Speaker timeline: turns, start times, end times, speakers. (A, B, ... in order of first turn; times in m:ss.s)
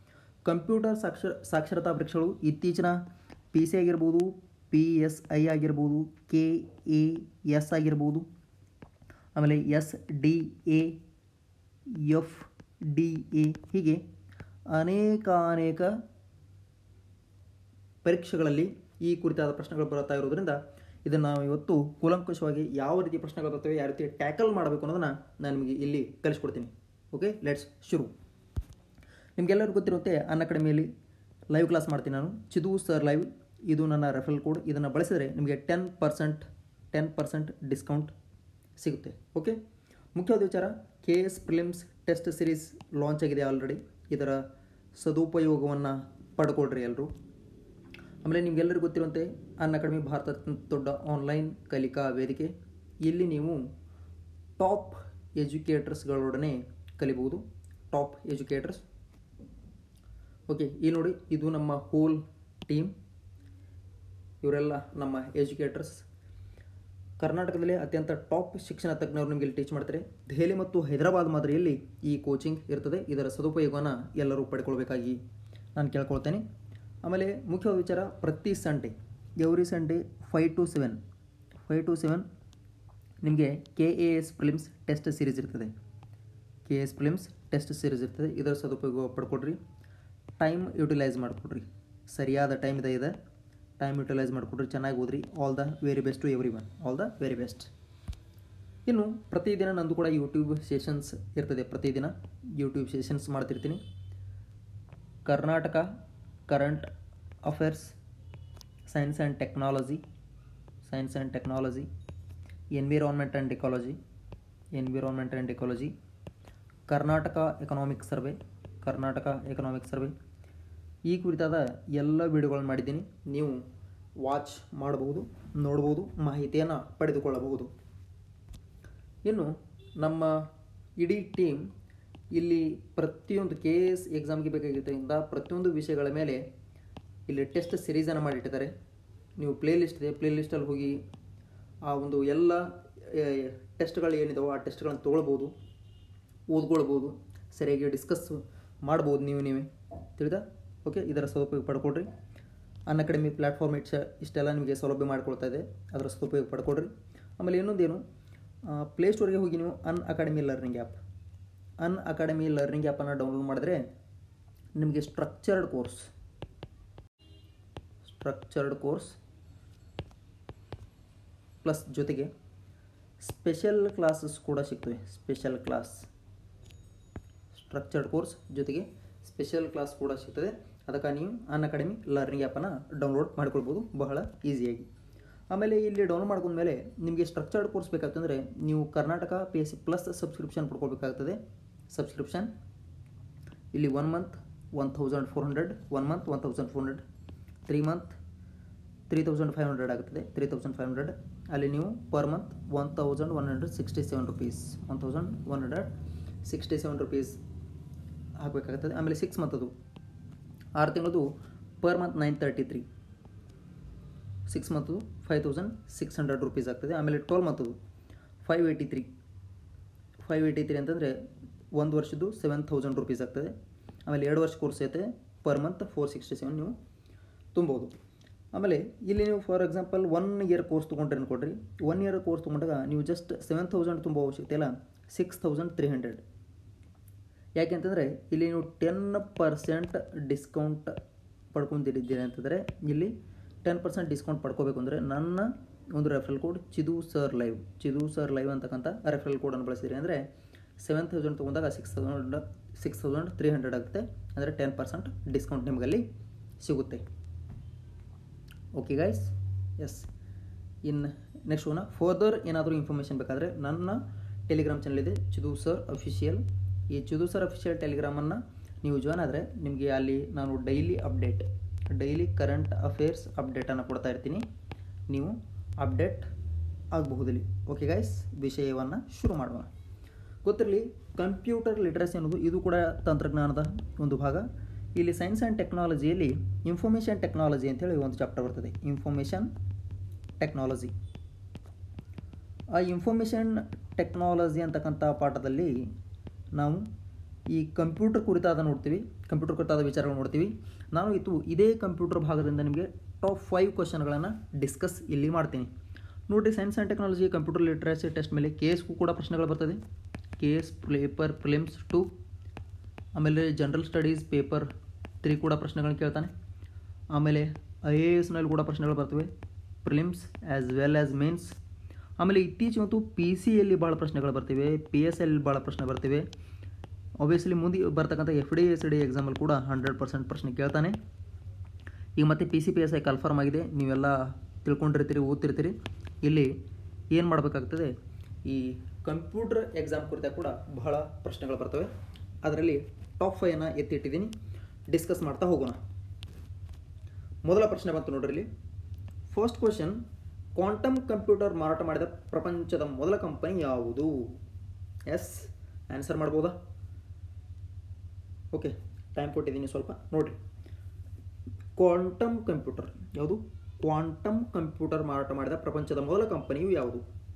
0:00.4-0:03.0 A
0:03.5-0:08.2 A
0:09.3-0:11.0 A
0:11.9-0:14.0 A
0:14.7-0:16.0 A
0:18.0-0:28.1 A
0:29.4-0:30.9 A
0:31.5-0:38.1 A
0:38.8-0:39.6 A
0:40.1-0:44.4 A
0:45.0-0:47.1 A
0:48.2-0:53.6 A
0:54.6-0:58.8 A
1:00.5-1:02.9 A
1:04.4-1:06.0 A
1:07.2-1:15.2 A
1:15.7-1:16.4 A
1:17.0-1:21.0 A
1:21.6-1:22.2 A
1:23.2-1:25.7 A
1:26.6-1:29.6 A
1:30.4-1:33.1 A
1:33.8-1:37.7 A
1:38.8-1:43.8 A
1:45.2-1:45.9 A
1:46.5-1:46.9 A
1:47.4-1:48.0 A
1:48.9-1:50.0 A
1:50.8-1:51.9 A
1:52.7-1:54.0 A
1:54.7-1:55.9 A
1:56.9-2:00.1 A
2:01.1-2:03.6 A
2:04.2-2:07.7 A
2:09.2-2:10.3 A
2:11.0-2:11.7 A
2:12.3-2:16.4 A
2:17.3-2:18.7 A
2:19.4-2:21.0 A
2:21.8-2:25.5 A
2:26.5-2:32.1 A
2:32.9-2:38.0 A
2:38.7-2:41.0 A
2:41.8-2:43.8 A
2:44.8-2:46.1 A
2:48.0-2:49.2 A
2:51.6-2:52.3 A
2:53.2-2:56.1 A
2:57.5-3:04.9 A
3:05.5-3:11.4 A
3:11.9-3:12.5 A
3:13.7-3:17.0 A
3:17.7-3:18.2 A
3:19.1-3:25.9 A
3:26.4-3:27.4 A
3:28.4-3:29.7 A
3:30.8-3:31.3 A
3:31.8-3:32.8 A
3:34.5-3:37.8 A
3:38.4-3:39.1 A
3:40.2-3:41.2 A
3:41.7-3:43.5 A
3:44.0-3:46.7 A
3:47.5-3:48.0 A
3:48.5-3:56.2 A
3:57.6-4:01.0 A
4:01.5-4:10.3 A
4:10.8-4:16.0 A
4:16.6-4:17.0 A
4:18.8-4:20.1 A
4:20.8-4:34.4 A
4:35.1-4:36.3 A
4:36.9-4:39.7 A
4:40.4-4:49.5 A
4:50.4-4:50.9 A
4:52.7-4:55.7 A
4:56.6-4:56.8 A
4:57.5-5:05.7 A
5:06.3-5:09.8 A
5:10.4-5:12.1 A
5:13.2-5:14.7 A
5:15.2-5:16.3 A
5:17.1-5:19.3 A
5:19.8-5:21.6 A
5:22.2-5:26.2 A
5:27.2-5:31.0 A
5:32.2-5:36.5 A
5:37.1-5:37.9 A
5:38.4-5:41.9 A
5:42.4-5:44.3 A
5:44.9-5:45.8 A
5:47.4-5:48.5 A
5:49.3-5:50.0 A
5:50.5-5:54.3 A
5:55.1-5:56.5 A
5:58.5-6:00.4 A
6:01.8-6:07.0 A